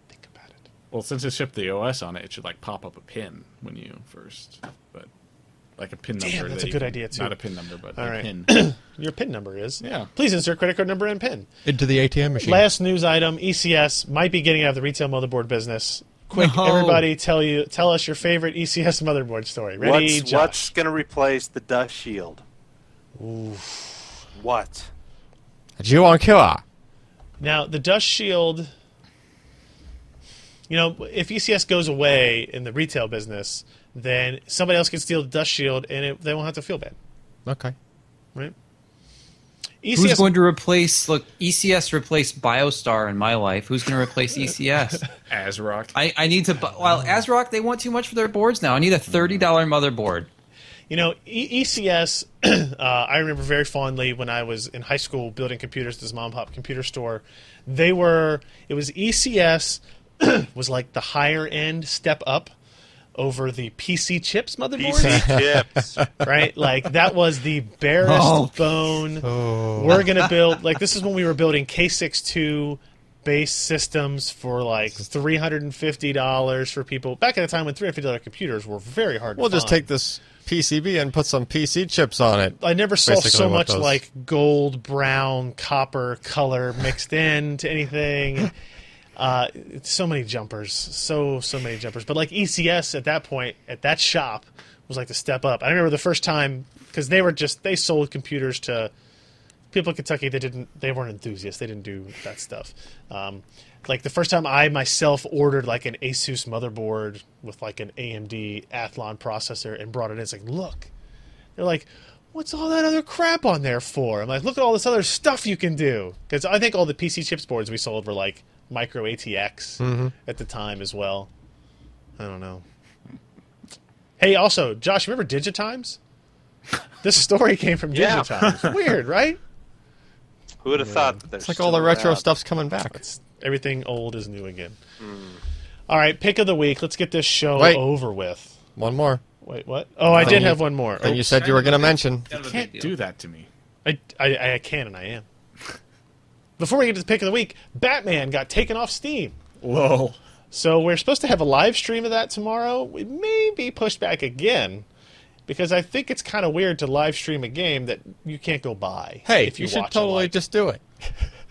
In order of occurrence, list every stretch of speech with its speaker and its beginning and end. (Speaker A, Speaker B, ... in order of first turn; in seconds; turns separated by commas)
Speaker A: 0.1-0.6, Speaker B: 0.9-5.1, Speaker B: 5.8-8.6, Speaker A: 6.2-7.4, Speaker A: 8.0-11.5, Speaker B: 9.8-10.1, Speaker C: 11.7-12.7, Speaker A: 12.4-20.7, Speaker D: 16.3-17.1, Speaker E: 19.8-22.4, Speaker A: 23.2-24.1, Speaker E: 24.4-24.9, Speaker C: 25.8-26.6, Speaker A: 27.4-28.7, Speaker A: 30.7-37.0, Speaker C: 37.5-37.8, Speaker A: 39.8-40.3, Speaker D: 39.9-45.1, Speaker B: 45.3-46.0, Speaker D: 45.9-50.3, Speaker A: 50.9-62.5, Speaker A: 63.2-65.4, Speaker E: 64.8-66.0, Speaker C: 65.0-66.2, Speaker A: 66.2-79.8, Speaker D: 68.0-68.9, Speaker C: 69.2-70.0, Speaker C: 79.4-84.0, Speaker A: 82.6-88.5, Speaker A: 89.2-98.9, Speaker A: 99.7-110.9, Speaker A: 111.6-121.3, Speaker C: 119.8-120.1, Speaker A: 122.2-122.6, Speaker A: 124.2-126.0, Speaker A: 127.0-129.4, Speaker E: 128.0-128.3, Speaker E: 130.6-132.3, Speaker A: 130.7-131.2, Speaker C: 131.4-133.0, Speaker A: 132.9-134.8, Speaker E: 135.0-135.4, Speaker A: 135.9-138.6, Speaker C: 137.6-137.8, Speaker C: 138.8-139.2, Speaker A: 139.4-141.4, Speaker C: 140.2-142.3, Speaker D: 141.2-143.0, Speaker B: 142.3-143.5, Speaker A: 143.8-145.2, Speaker A: 146.6-149.4, Speaker B: 149.6-150.2, Speaker A: 150.5-154.9, Speaker A: 155.5-160.4, Speaker C: 159.3-161.1